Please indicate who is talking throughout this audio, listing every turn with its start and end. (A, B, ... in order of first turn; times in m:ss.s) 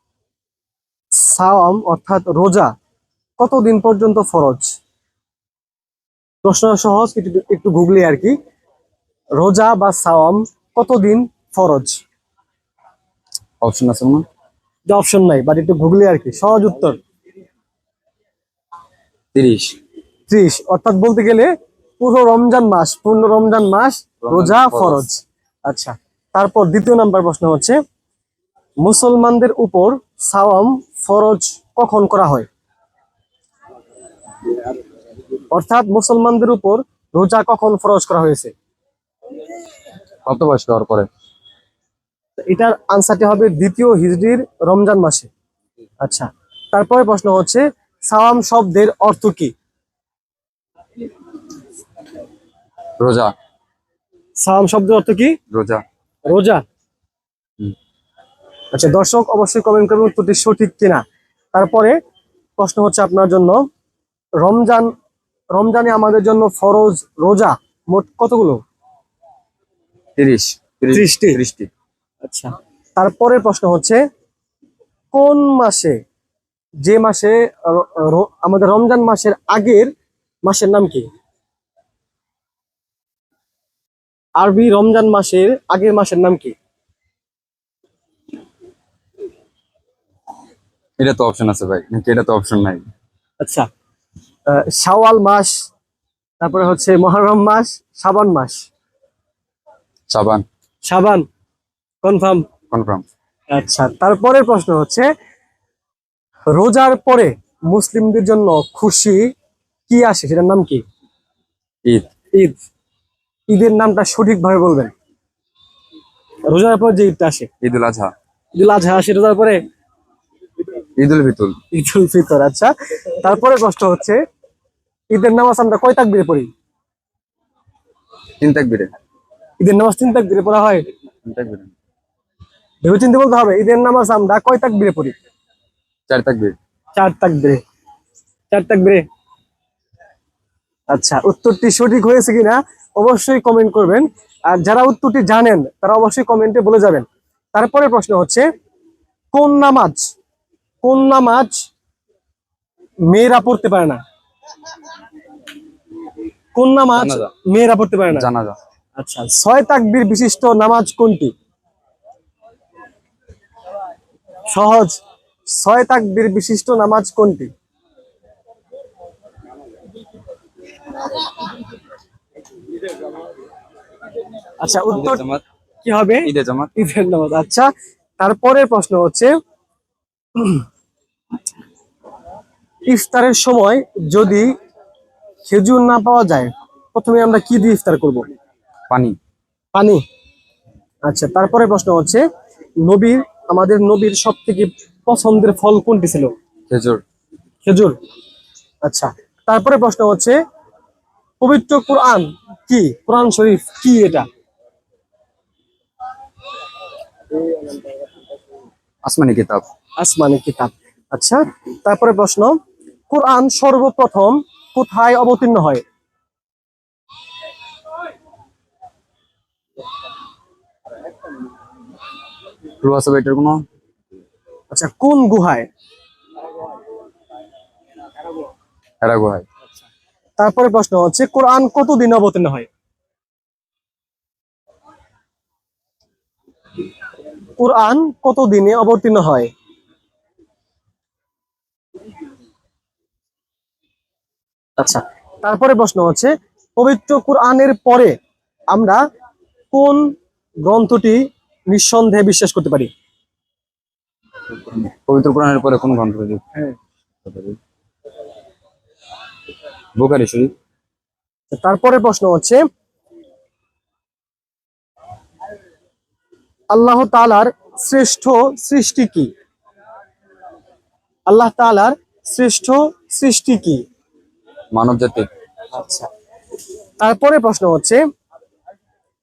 0:01.2-0:02.7 A
0:03.4-0:04.8 A
0:06.4-0:08.3 A
0:09.4-0:12.0 A
0:13.6-0:14.2 B
0:14.9-0:17.0 A
0:19.3-0:19.7 B
0:20.3-0:27.8 A
0:24.2-0:25.0 B
0:28.8-0:32.5 A
0:35.5-0:38.5 A
0:40.2-0:41.1 B
0:42.4-0:45.3 A
0:46.0-0:49.5 A
0:53.0-0:53.3 B
0:54.4-0:55.4 A
0:55.5-0:55.8 B
0:56.3-0:56.6 A
0:58.7-1:01.9 A
1:02.6-1:03.6 A
1:04.4-1:04.9 A
1:05.5-1:08.6 A
1:10.2-1:11.7 B
1:10.9-1:11.4 A
1:12.2-1:14.0 A
1:15.1-1:16.0 A
1:16.8-1:19.9 A
1:20.4-1:21.1 A
1:24.4-1:26.5 A
1:31.0-1:32.8 B
1:33.4-1:33.7 A
1:34.5-1:35.5 A
1:36.4-1:38.6 A
1:40.1-1:40.4 B
1:40.9-1:41.2 A
1:42.0-1:42.4 A
1:42.7-1:43.0 B
1:43.5-1:45.1 A
1:46.5-1:49.2 A
1:49.9-1:50.8 A
1:53.5-1:54.9 A
1:56.5-1:57.5 A
1:57.6-1:58.1 B
1:58.6-1:59.6 A
2:01.0-2:01.6 B
2:01.7-2:04.2 A
2:05.1-2:06.5 A
2:08.4-2:08.9 B
2:09.6-2:10.8 A
2:11.2-2:11.7 B
2:12.8-2:15.1 A
2:16.1-2:16.6 B
2:17.0-2:17.6 A
2:18.5-2:19.0 A
2:20.9-2:28.4 A
2:29.3-2:30.0 A
2:30.8-2:31.5 A
2:33.1-2:34.0 A
2:36.5-2:38.3 A
2:36.9-2:37.3 B
2:38.1-2:38.6 B
2:39.0-2:41.3 A
2:44.5-2:47.5 A
2:54.6-2:55.2 A
2:54.9-2:55.4 B
2:55.8-2:59.3 A
2:56.2-2:56.7 B
3:00.4-3:00.6 A
3:02.9-3:04.5 A
3:05.5-3:08.2 A
3:08.9-3:09.2 B
3:09.7-3:10.0 A
3:11.0-3:12.2 A
3:12.8-3:16.3 A
3:16.7-3:17.0 B
3:17.6-3:18.0 A
3:18.8-3:20.4 A
3:21.4-3:24.2 A
3:29.0-3:29.6 B
3:30.0-3:32.6 A
3:33.1-3:35.8 A
3:42.8-3:43.6 B
3:44.7-3:45.7 A
3:49.0-3:49.4 B
3:50.4-3:52.7 A
3:57.6-3:59.5 A
4:04.8-4:08.1 A
4:08.7-4:09.0 A
4:09.7-4:10.1 A
4:10.6-4:12.9 A
4:14.5-4:16.4 B
4:17.2-4:17.6 B
4:20.0-4:20.5 B
4:21.5-4:22.6 A
4:26.7-4:29.3 A
4:31.3-4:33.8 A
4:34.7-4:35.3 B
4:35.7-4:36.1 A
4:37.0-4:38.0 A